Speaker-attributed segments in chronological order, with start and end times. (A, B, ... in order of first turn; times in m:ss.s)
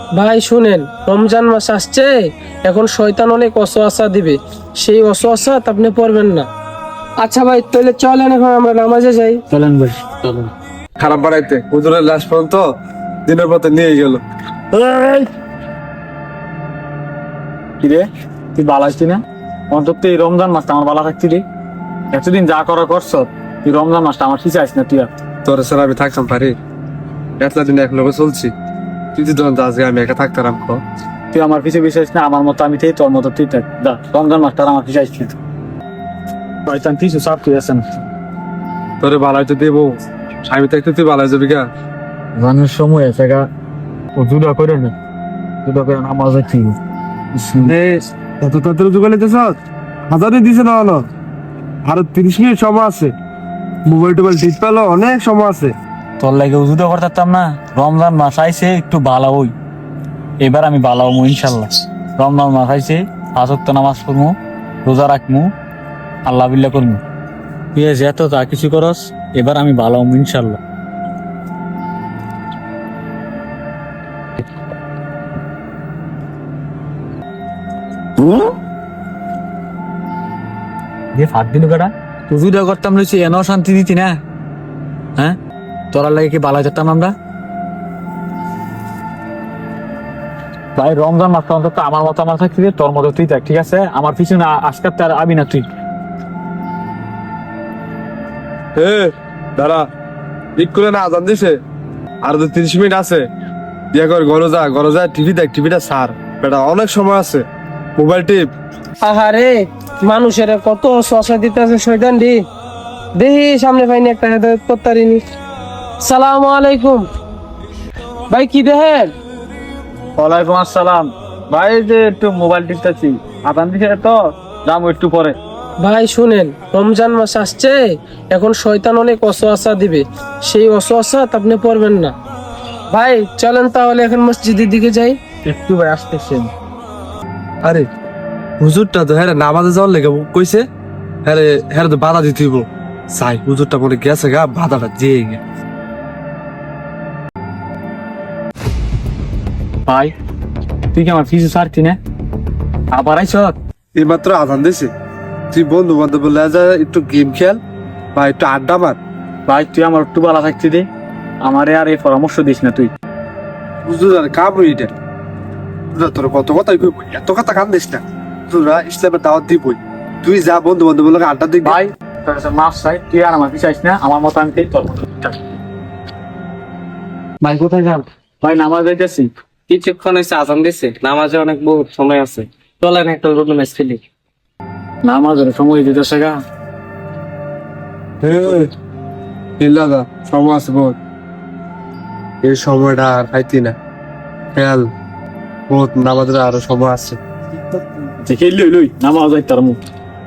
0:00.2-0:02.1 A
0:02.7-0:06.5 A
0:07.2-0:09.4 A
0:09.5-0:10.5 B
0:11.0-0:12.7 C
0:13.3-0:14.2 C
0:14.7-0:15.3 B
0:17.8-0:21.4 B
0:22.1-0:25.1 B
0:25.4-0:26.6 C
0:27.4-0:28.5 C
0:29.2-0:30.8 C
0:31.3-0:35.3 B
0:36.7-0:37.9 B
0:39.0-0:41.7 C
0:42.4-0:43.5 B
0:44.2-0:44.9 B
0:45.6-0:46.8 B
0:47.4-0:47.7 B
0:47.6-0:49.6 C
0:50.1-0:51.1 C
0:51.8-0:53.1 C
0:53.8-0:55.7 C
0:56.2-0:59.5 B
1:00.4-1:05.5 B
1:06.2-1:07.0 B
1:07.7-1:10.6 B
1:21.1-1:24.2 B
1:25.9-1:27.1 B
1:30.8-1:35.7 B
1:38.8-1:39.8 C
1:40.6-1:41.6 C
1:42.2-1:43.2 C
1:43.9-1:47.4 C
1:48.0-1:48.5 C
1:49.0-1:52.4 A
1:53.2-1:55.2 A
1:56.0-1:57.1 A
1:58.3-1:59.1 A
2:00.2-2:05.4 B
2:05.8-2:07.8 A
2:08.3-2:12.2 A
2:12.9-2:15.2 A
2:15.4-2:16.5 B
2:18.6-2:20.6 C
2:21.2-2:25.4 C
2:29.9-2:30.1 B
2:30.9-2:32.0 B
2:32.9-2:33.6 B
2:34.0-2:34.9 C
2:35.5-2:37.6 C
2:38.2-2:39.0 C
2:39.5-2:40.9 B
2:41.4-2:42.9 B
2:43.8-2:44.9 C
2:45.9-2:51.8 C
2:51.6-2:55.6 B
2:57.4-2:59.3 B
2:59.7-3:04.0 D
3:05.0-3:06.4 B
3:08.2-3:08.7 C
3:09.6-3:11.0 C
3:12.4-3:13.8 C
3:14.6-3:14.9 C
3:15.7-3:17.2 C
3:18.2-3:19.8 B